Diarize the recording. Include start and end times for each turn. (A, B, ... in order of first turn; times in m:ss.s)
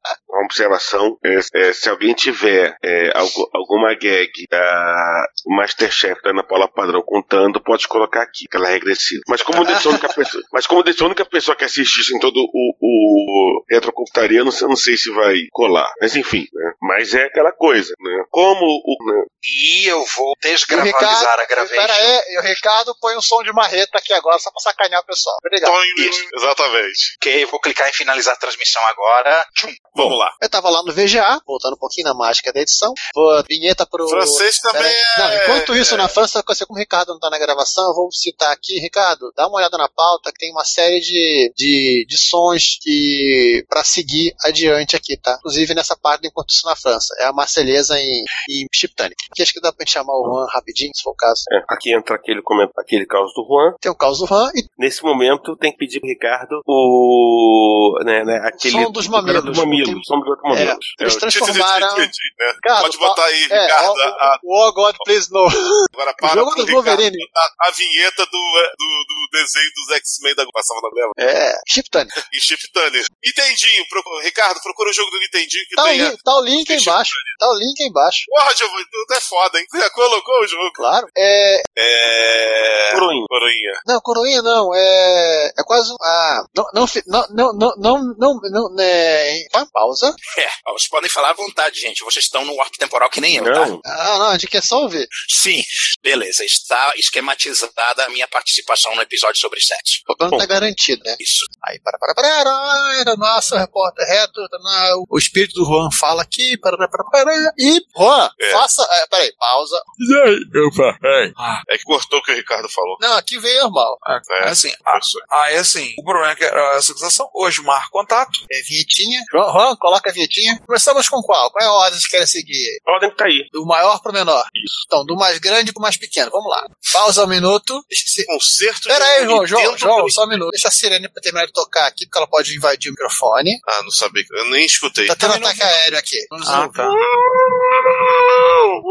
0:00.3-0:19.3 A
0:19.4-0:22.1 B
0:20.7-0:25.8 C
0:25.6-0:27.1 D
0:27.2-0:30.2 B
0:29.9-0:30.3 D
0:30.4-0:51.4 C
0:34.1-0:36.1 D
0:51.5-0:53.8 A
0:53.8-0:54.7 C
0:54.8-1:01.2 A
0:58.6-1:07.3 C
1:01.3-1:04.4 D
1:05.9-1:11.2 D
1:11.2-1:12.1 C
1:12.3-1:17.3 D
1:15.8-1:18.2 C
1:18.3-1:20.8 D
1:20.8-1:21.6 C
1:21.8-1:23.8 D
1:22.9-1:23.3 A
1:23.8-1:30.2 C
1:30.3-1:33.7 B
1:33.4-1:33.8 A
1:33.8-1:35.1 C
1:35.2-1:40.0 B
1:40.1-1:49.8 C
1:41.2-1:41.5 B
1:48.4-1:48.6 D
1:50.0-1:51.6 E
1:51.7-1:53.0 D
1:53.0-1:54.0 C
1:54.0-1:58.4 E
1:54.3-1:55.2 D
1:58.5-2:02.8 C
2:02.8-2:03.5 A
2:03.5-2:08.3 C
2:08.3-2:10.2 D
2:08.9-2:13.6 C
2:13.6-2:15.2 D
2:15.1-2:16.8 C
2:15.2-2:15.7 E
2:16.4-2:17.0 E